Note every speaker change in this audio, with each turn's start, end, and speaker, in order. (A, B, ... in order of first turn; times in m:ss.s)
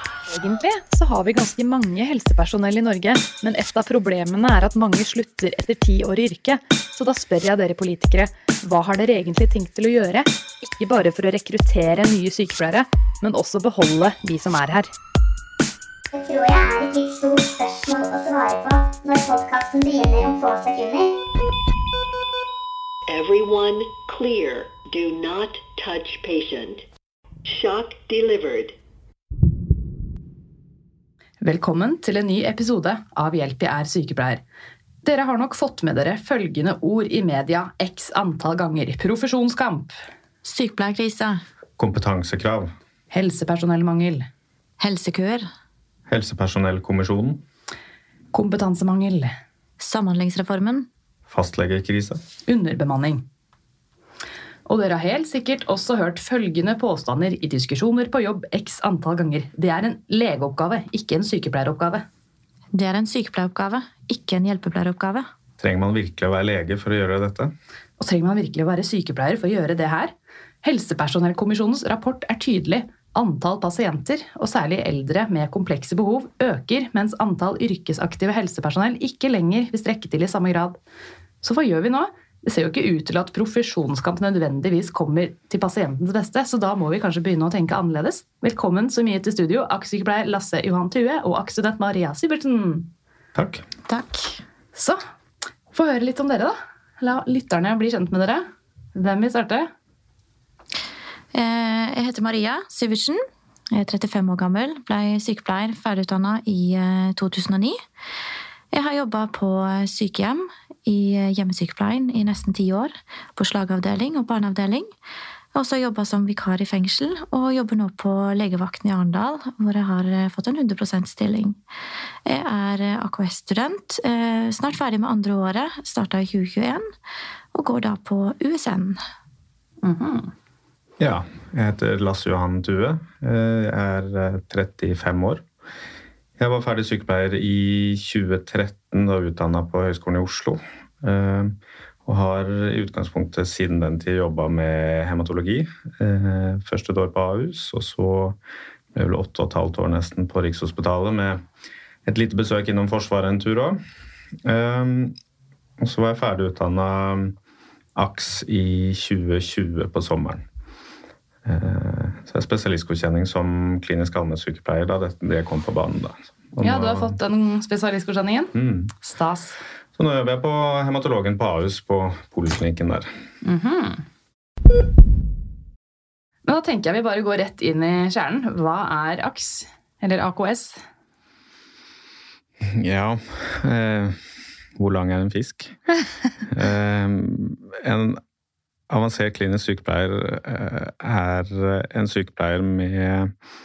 0:00.3-0:14.9 A
0:16.1-0:21.2 B
0:23.1-0:26.8 C
0:27.5-0:28.8 C
0:31.4-0:34.4 D
0:35.0-0:39.9 D
0:40.4-0:41.4 E
0:41.8-0:42.7 F
0:43.1-0:44.3 D
0:44.8-0:45.5 E
0:46.1-0:47.4 F
0:48.3-0:49.3 D
0:49.8-0:50.9 E
0:51.3-0:52.2 F
0:52.5-0:53.2 D
0:54.7-1:02.0 D
1:02.7-1:05.3 E
1:05.6-1:07.5 F
1:08.0-1:20.8 D
1:21.4-1:32.9 D
1:33.4-1:33.6 F
1:33.9-1:34.4 E
1:34.8-1:35.0 D
1:35.7-1:39.7 D
1:41.3-1:47.8 E
1:48.7-1:54.9 E
1:55.5-2:01.6 E
2:02.2-2:06.9 E
2:07.5-2:09.0 E
2:09.8-2:10.3 D
2:11.0-2:15.4 F
2:16.4-2:28.4 F
2:28.9-2:31.4 F
2:32.1-2:33.8 F
2:34.4-2:35.2 F
2:35.8-2:37.4 F
2:38.0-2:40.4 F
2:41.4-2:47.2 F
2:46.6-2:49.6 D
2:48.5-2:48.9 F
2:50.0-2:53.1 F
2:53.4-2:54.0 D
2:56.4-3:00.8 D
3:02.6-3:04.2 F
3:04.8-3:05.8 F
3:06.5-3:08.2 F
3:08.9-3:13.3 F